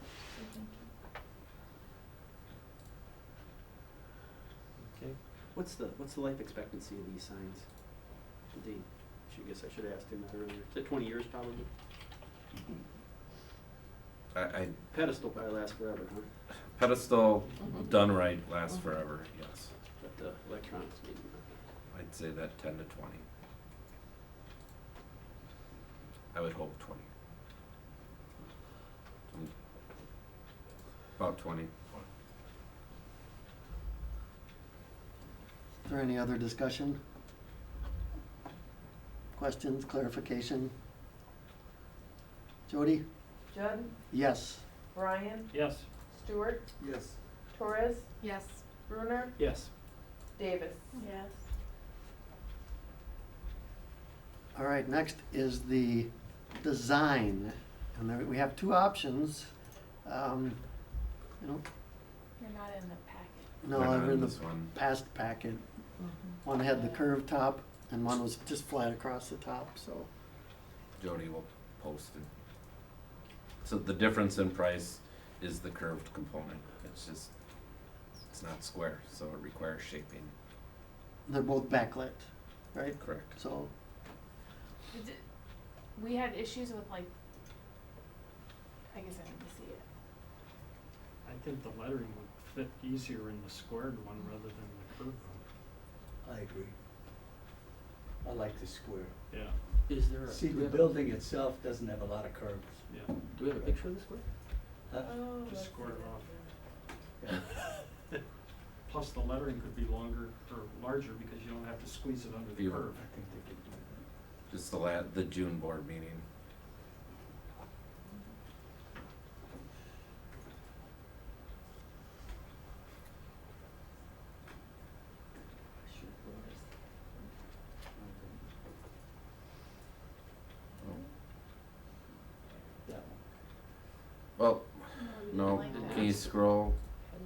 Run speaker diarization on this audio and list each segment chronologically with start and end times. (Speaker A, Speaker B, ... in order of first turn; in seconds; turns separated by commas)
Speaker A: 0.3-0.9, Speaker B: 4.9-7.7, Speaker B: 8.5-11.7, Speaker C: 14.3-14.8, Speaker B: 14.9-16.3, Speaker C: 16.7-19.7, Speaker B: 20.0-21.5, Speaker C: 21.9-23.2, Speaker C: 26.3-27.1, Speaker C: 31.2-31.7, Speaker D: 35.9-37.0, Speaker D: 39.4-40.7, Speaker D: 42.7-43.0, Speaker E: 43.5-43.9, Speaker D: 44.1-44.6, Speaker E: 44.9-45.5, Speaker F: 45.5-45.9, Speaker E: 46.1-46.7, Speaker G: 46.8-47.2, Speaker E: 47.5-48.1, Speaker A: 48.2-48.6, Speaker E: 48.8-49.4, Speaker B: 49.4-49.7, Speaker E: 50.4-50.9, Speaker A: 50.9-51.4, Speaker D: 54.5-59.5, Speaker D: 60.0-60.6, Speaker A: 62.4-63.4, Speaker D: 63.6-65.6, Speaker C: 63.7-64.7, Speaker D: 66.4-70.1, Speaker A: 66.7-67.1, Speaker C: 71.0-72.3, Speaker C: 73.6-77.3, Speaker C: 78.3-80.3, Speaker D: 81.3-83.7, Speaker C: 83.0-83.3, Speaker A: 84.9-85.2, Speaker A: 86.0-87.1, Speaker A: 88.9-89.8, Speaker F: 91.2-95.4, Speaker G: 96.2-96.7, Speaker G: 98.2-99.1, Speaker F: 99.3-99.6, Speaker B: 99.9-101.0, Speaker G: 100.3-102.9, Speaker F: 102.9-103.1, Speaker B: 103.3-104.3, Speaker G: 103.5-104.0, Speaker G: 104.9-105.2, Speaker E: 105.0-106.5, Speaker F: 105.4-106.3, Speaker G: 107.2-107.5, Speaker F: 108.8-113.0, Speaker C: 112.6-112.9, Speaker G: 112.9-114.0, Speaker C: 114.5-116.2, Speaker G: 126.0-126.5, Speaker G: 128.0-128.4, Speaker G: 132.8-133.2, Speaker C: 134.4-136.8, Speaker A: 135.0-136.2